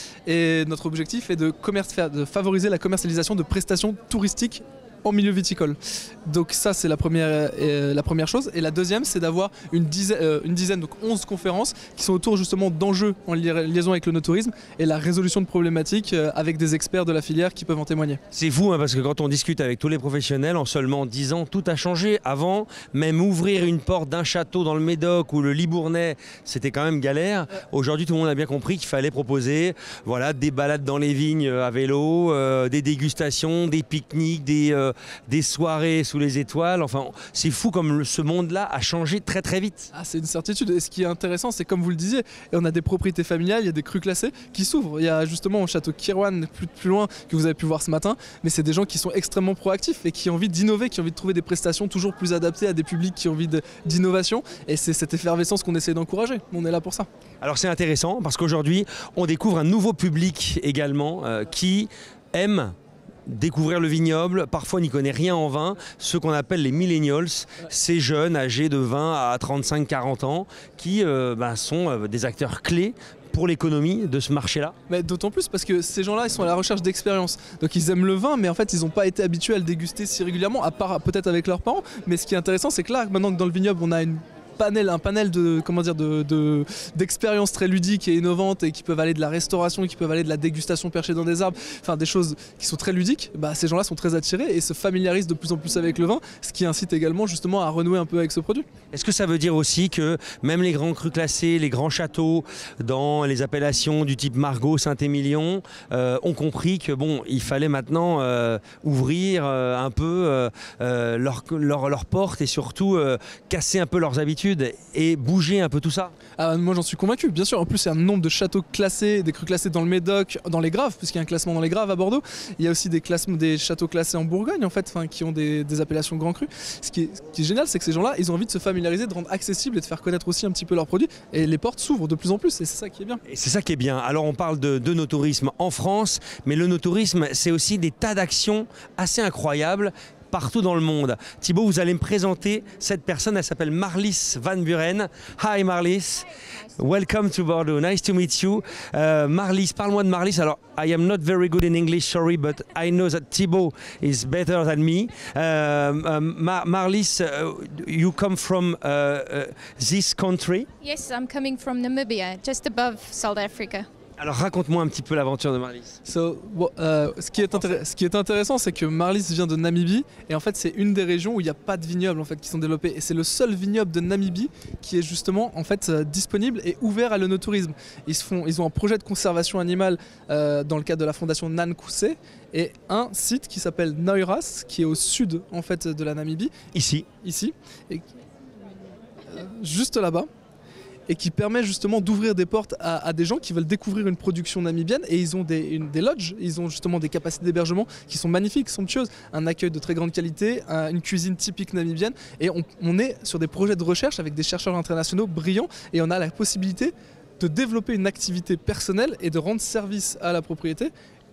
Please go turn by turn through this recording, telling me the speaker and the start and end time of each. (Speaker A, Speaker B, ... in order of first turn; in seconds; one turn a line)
Speaker A: 0.2-18.2
Speaker B: 18.3-39.9
Speaker A: 39.9-57.1
Speaker B: 57.4-62.7
Speaker B: 63.2-74.7
Speaker A: 74.9-98.7
Speaker B: 98.9-116.1
Speaker A: 116.4-133.2
Speaker B: 133.3-160.7
Speaker C: 160.8-163.9
Speaker B: 164.2-165.9
Speaker A: 166.0-186.5
Speaker B: 186.7-187.1
Speaker A: 187.1-188.0
Speaker A: 189.2-190.3
Speaker A: 191.1-210.9